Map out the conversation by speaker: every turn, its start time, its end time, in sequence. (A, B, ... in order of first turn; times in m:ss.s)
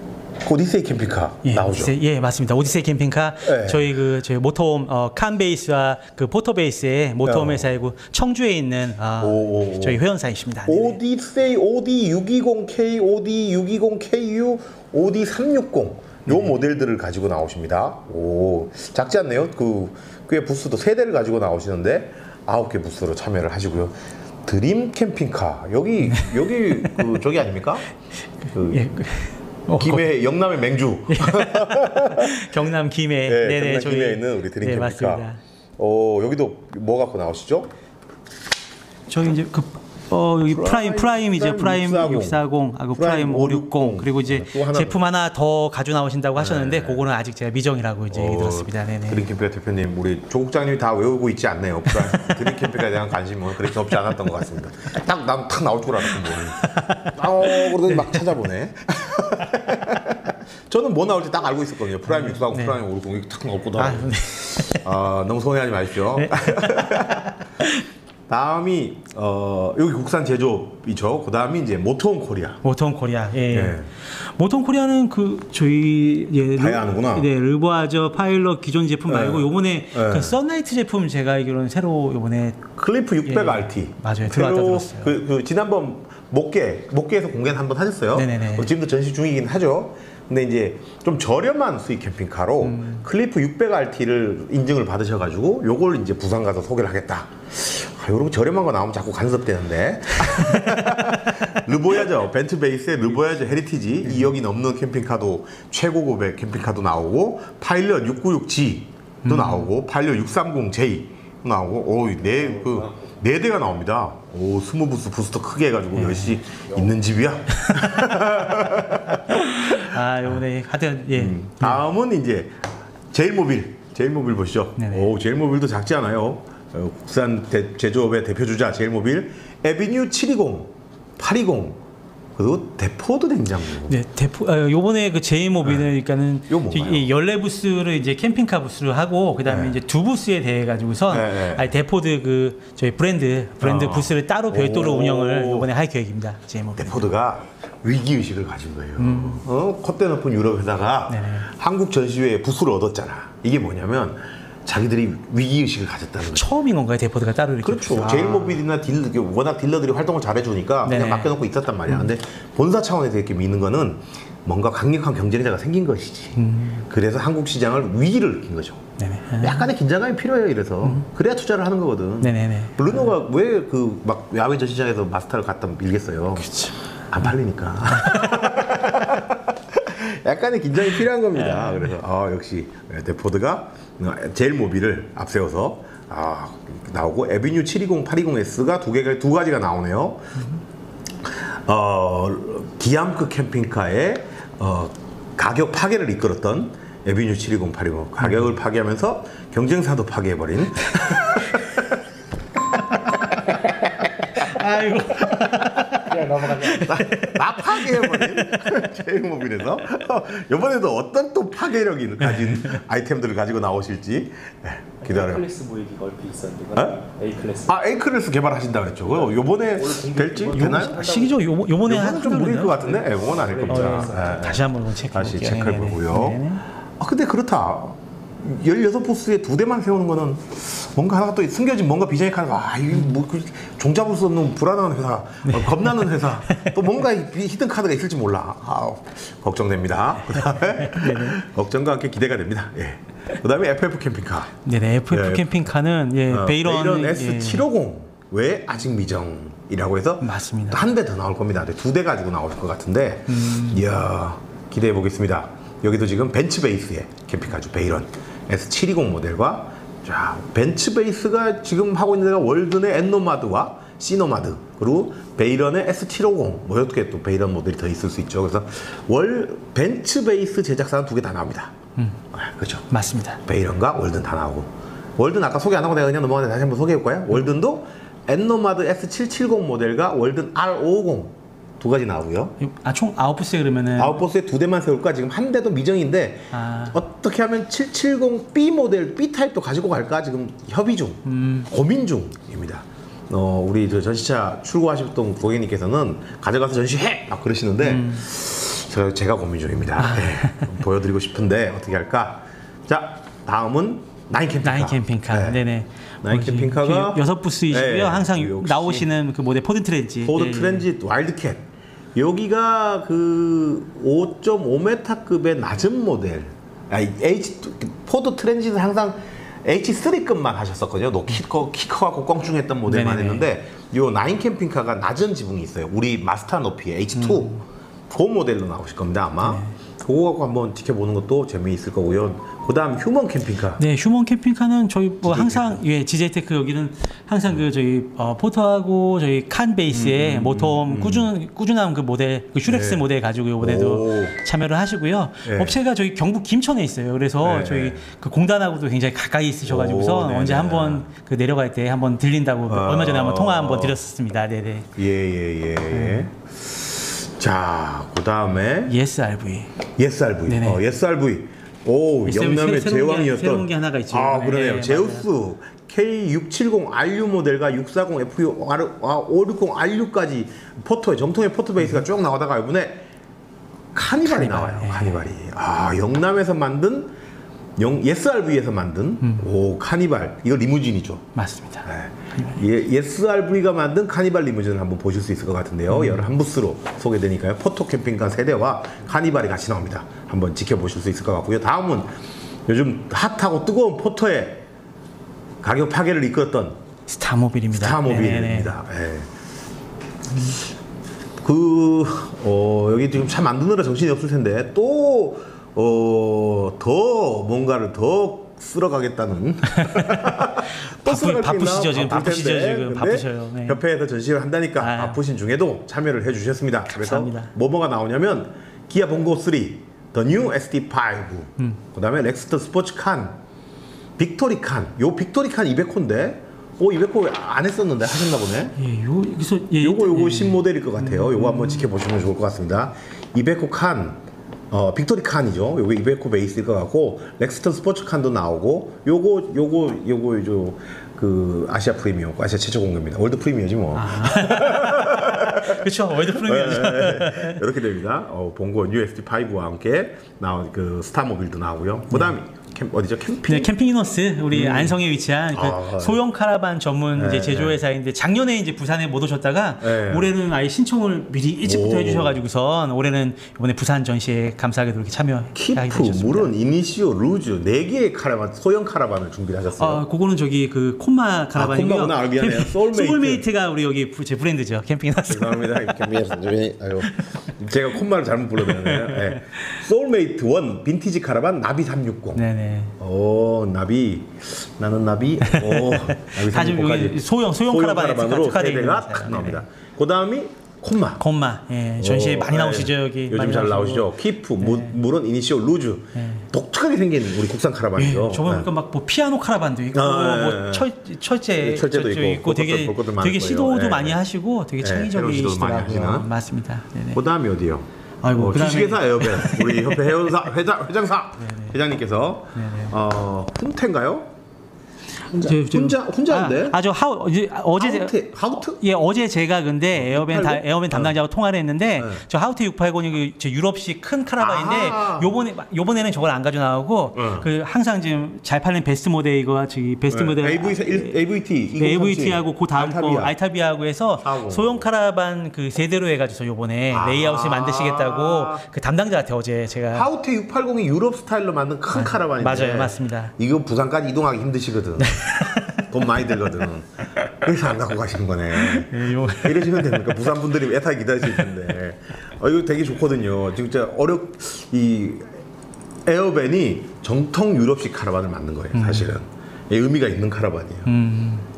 0:00.4-0:02.0 A
0:01.4-0:11.0 B
0:03.4-0:03.9 A
0:07.2-0:07.7 A
0:09.2-0:10.0 A
0:10.7-0:23.9 A
0:24.5-0:27.9 A
0:26.1-0:27.1 B
0:28.5-0:28.9 A
0:28.7-0:30.1 B
0:29.8-0:32.4 A
0:31.1-0:35.4 B
0:33.3-0:35.2 A
0:35.8-0:37.7 A
0:39.1-0:49.2 B
0:40.5-0:45.0 A
0:46.4-0:47.0 A
0:48.1-1:07.3 A
0:52.1-0:52.7 B
0:56.3-0:58.2 B
1:02.1-1:02.8 B
1:03.8-1:04.8 B
1:06.2-1:07.8 B
1:08.3-1:12.6 A
1:12.6-1:22.7 B
1:13.5-1:13.9 A
1:16.6-1:17.3 A
1:19.1-1:20.4 A
1:22.8-2:00.0 A
1:23.3-1:25.1 B
1:28.2-1:28.7 B
1:32.6-1:33.0 B
1:40.2-1:41.5 B
1:49.2-1:49.7 B
1:52.5-1:53.0 C
1:55.9-1:56.4 B
1:59.3-2:01.8 B
2:01.2-2:02.6 A
2:03.1-2:11.8 A
2:04.8-2:05.1 B
2:12.4-2:14.0 A
2:13.9-2:27.0 B
2:16.5-2:17.1 A
2:19.5-2:19.8 A
2:21.1-2:21.7 A
2:23.6-2:25.7 A
2:26.8-2:36.5 A
2:29.0-2:29.4 B
2:31.1-2:31.5 B
2:36.3-2:38.6 B
2:37.6-2:48.9 A
2:40.8-2:41.3 B
2:46.4-2:46.8 B
2:49.0-2:49.7 B
2:49.4-3:10.3 A
2:52.2-2:53.1 B
2:56.5-2:56.8 B
2:57.9-2:58.6 B
3:01.4-3:01.9 B
3:11.2-3:21.9 A
3:22.9-3:23.3 A
3:24.4-3:28.8 B
3:25.2-3:35.4 A
3:26.1-3:26.8 C
3:32.3-3:32.8 B
3:35.0-3:37.8 C
3:36.8-3:37.0 A
3:37.7-3:41.0 A
3:39.1-3:41.6 C
3:40.5-3:42.9 B
3:41.8-3:46.4 A
3:42.8-3:44.4 C
3:43.7-3:46.6 B
3:47.0-4:04.6 A
3:55.5-3:56.7 B
4:00.3-4:01.4 B
4:04.6-4:07.7 B
4:05.1-4:05.5 A
4:06.3-4:31.7 A
4:10.2-4:10.8 B
4:13.3-4:13.8 B
4:32.3-4:32.9 A
4:32.9-4:33.4 B
4:33.4-4:42.6 A
4:42.6-4:44.2 B
4:44.0-5:05.6 A
4:46.5-4:47.0 B
4:51.3-4:51.7 B
4:57.8-4:58.2 B
5:00.0-5:00.5 B
5:04.6-5:10.8 B
5:06.2-5:09.1 A
5:10.2-5:33.8 A
5:22.9-5:23.5 B
5:27.2-5:27.6 B
5:29.4-5:29.7 B
5:33.8-5:54.9 B
5:35.2-5:35.8 A
5:39.9-5:41.3 A
5:42.7-5:43.0 A
5:43.6-5:44.4 A
5:45.4-5:45.8 A
5:47.4-5:48.1 A
5:49.6-5:51.1 A
5:52.7-5:54.0 A
5:55.0-5:59.0 A
5:55.9-5:56.3 B
5:58.9-5:59.7 B
6:00.0-6:13.0 A
6:00.5-6:00.8 B
6:02.3-6:05.3 B
6:13.9-6:17.1 A
6:14.2-6:15.3 B
6:17.8-6:21.3 A
6:21.4-6:21.8 B
6:21.8-6:32.1 A
6:25.9-6:26.3 B
6:32.7-6:34.6 A
6:35.6-6:36.8 A
6:37.1-6:38.7 B
6:37.7-6:39.3 A
6:41.4-7:03.4 A
6:49.8-6:50.4 B
6:51.0-6:53.8 B
6:54.8-6:55.2 B
6:57.0-6:57.5 B
7:04.2-7:08.8 A
7:08.8-7:11.9 B
7:09.8-7:14.2 A
7:14.7-7:33.7 A
7:23.9-7:27.6 B
7:33.4-7:46.5 B
7:34.5-7:35.0 A
7:35.5-7:36.2 A
7:37.2-7:37.8 A
7:39.8-7:40.3 A
7:41.6-7:42.4 A
7:45.5-7:50.0 A
7:49.8-7:56.1 B
7:51.6-7:53.4 A
7:55.3-8:02.4 A
7:58.6-7:59.6 B
8:02.4-8:02.9 B
8:03.0-8:11.2 A
8:05.5-8:09.6 B
8:11.2-8:14.9 B
8:12.0-8:18.7 A
8:16.2-8:16.4 B
8:18.0-8:27.2 B
8:19.9-8:20.9 A
8:21.6-8:24.2 A
8:24.8-8:26.3 A
8:27.1-8:34.3 A
8:28.2-8:30.3 B
8:31.4-8:31.7 B
8:32.6-8:32.9 B
8:35.3-8:51.2 B
8:35.3-8:36.8 A
8:37.8-8:38.8 A
8:39.9-8:41.2 A
8:42.0-8:42.2 A
8:44.4-8:45.3 A
8:47.1-8:47.5 A
8:50.1-8:53.3 A
8:51.8-9:00.1 B
8:54.2-8:54.8 A
8:56.9-8:58.6 A
8:59.9-9:15.4 A
9:01.9-9:03.3 B
9:05.0-9:06.4 B
9:08.5-9:10.2 B
9:16.1-9:20.9 A
9:18.7-9:19.1 B
9:20.9-9:21.5 B